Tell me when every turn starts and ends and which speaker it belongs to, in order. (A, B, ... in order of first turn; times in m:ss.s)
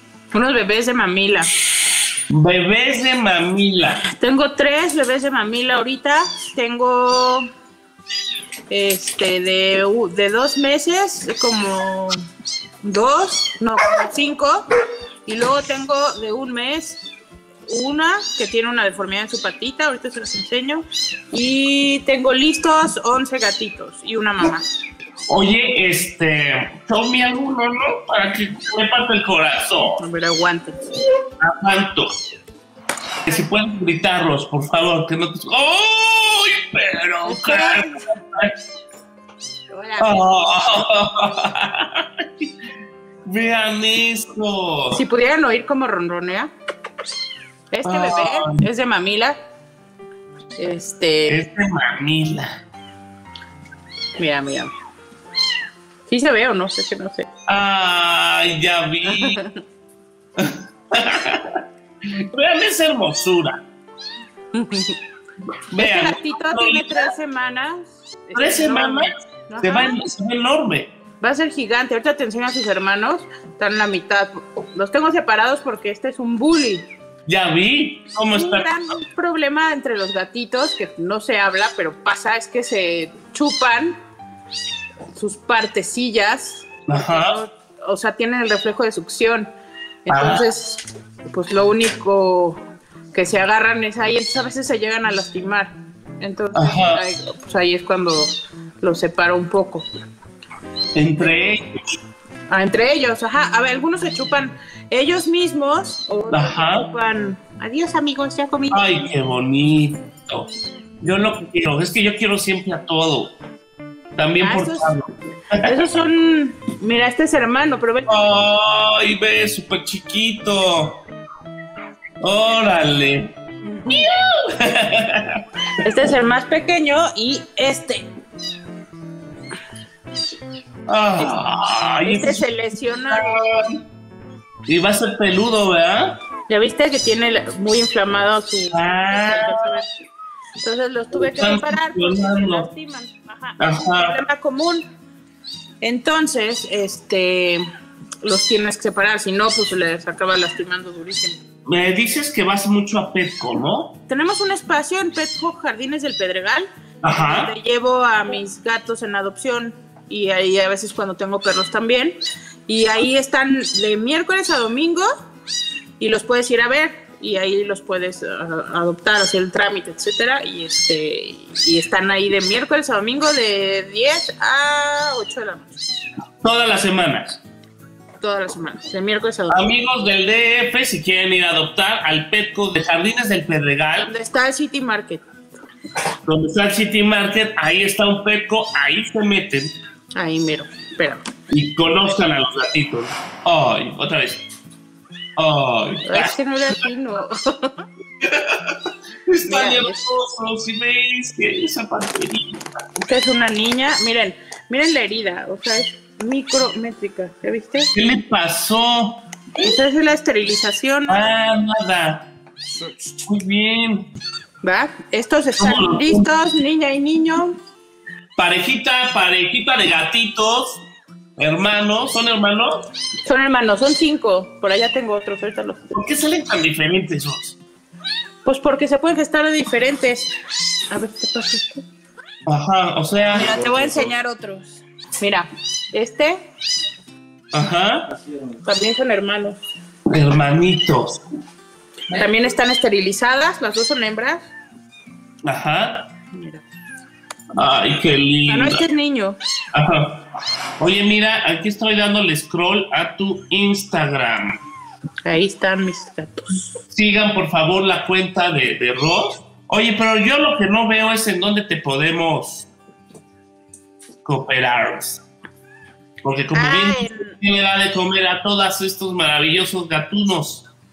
0:00.3-0:01.5 A
0:02.3-0:04.0 B
0:04.1-0:07.5 A
0:08.7-0:12.2 A
0:12.8-0:14.7 A
0:15.2-0:17.0 A
0:17.7-0:24.6 A
0:25.3-0:30.0 B
0:30.0-0:30.9 A
0:31.4-0:32.1 B
0:33.2-0:38.5 B
0:37.2-0:38.2 A
0:39.7-0:40.3 A
0:40.0-0:42.5 B
0:43.3-0:45.0 B
0:44.9-0:46.5 A
0:47.7-0:49.4 A
0:47.8-0:48.6 B
0:50.6-0:51.4 A
0:51.3-0:52.5 B
0:54.2-0:54.7 A
0:56.1-0:57.3 A
0:57.5-0:59.4 B
0:59.1-0:59.6 A
1:00.4-1:01.6 B
1:02.3-1:03.6 B
1:04.5-1:05.0 A
1:05.7-1:06.9 B
1:05.8-1:10.0 A
1:08.3-1:10.9 B
1:11.2-1:16.9 A
1:17.3-1:18.7 B
1:18.3-1:24.0 A
1:25.1-1:29.5 A
1:26.9-1:27.4 B
1:30.1-1:32.6 A
1:30.1-1:30.4 B
1:33.1-1:39.9 A
1:36.6-1:37.0 B
1:41.0-1:41.7 B
1:42.5-1:49.0 A
1:46.3-1:46.8 B
1:48.7-1:50.5 B
1:51.0-1:53.3 B
1:54.1-1:55.8 B
1:54.4-1:54.9 A
1:55.6-1:58.2 A
1:58.1-2:01.0 B
2:02.2-2:03.3 B
2:03.7-2:04.1 A
2:03.9-2:05.4 B
2:05.8-2:08.1 A
2:10.9-2:12.4 B
2:12.0-2:13.4 A
2:13.1-2:13.8 B
2:14.7-2:16.2 B
2:16.5-2:19.9 A
2:18.7-2:19.7 B
2:20.6-2:24.8 A
2:21.3-2:22.7 B
2:23.6-2:24.2 B
2:25.8-2:27.6 A
2:28.2-2:31.4 A
2:31.7-2:33.9 B
2:34.1-2:45.1 A
2:37.0-2:37.5 B
2:46.0-2:55.8 A
2:56.4-2:57.4 B
2:58.2-2:59.7 A
2:59.5-3:04.1 B
3:04.0-3:05.2 A
3:06.2-3:09.7 B
3:10.2-3:11.2 A
3:11.5-3:14.4 B
3:15.4-3:16.3 B
3:16.0-3:17.8 A
3:18.2-3:18.8 B
3:19.3-3:22.6 B
3:19.4-3:20.0 A
3:23.0-3:27.9 A
3:27.9-3:29.2 B
3:29.6-3:31.3 A
3:31.1-3:32.3 B
3:33.2-3:34.0 B
3:34.6-3:37.6 A
3:35.6-3:36.2 B
3:38.4-3:40.8 B
3:41.4-3:42.8 B
3:43.2-3:45.9 A
3:45.9-3:47.6 B
3:48.4-3:50.3 A
3:50.9-3:51.8 A
3:52.4-3:53.6 B
3:53.3-3:56.4 A
3:57.5-3:58.1 B
3:58.6-3:59.6 A
4:00.1-4:01.2 B
4:02.1-4:04.5 A
4:05.4-4:06.1 B
4:06.3-4:06.6 A
4:07.6-4:08.8 B
4:08.4-4:09.4 A
4:09.7-4:10.2 B
4:10.8-4:14.6 B
4:15.2-4:16.8 A
4:16.9-4:22.7 B
4:24.2-4:25.2 B
4:26.2-4:30.6 B
4:26.5-4:27.4 A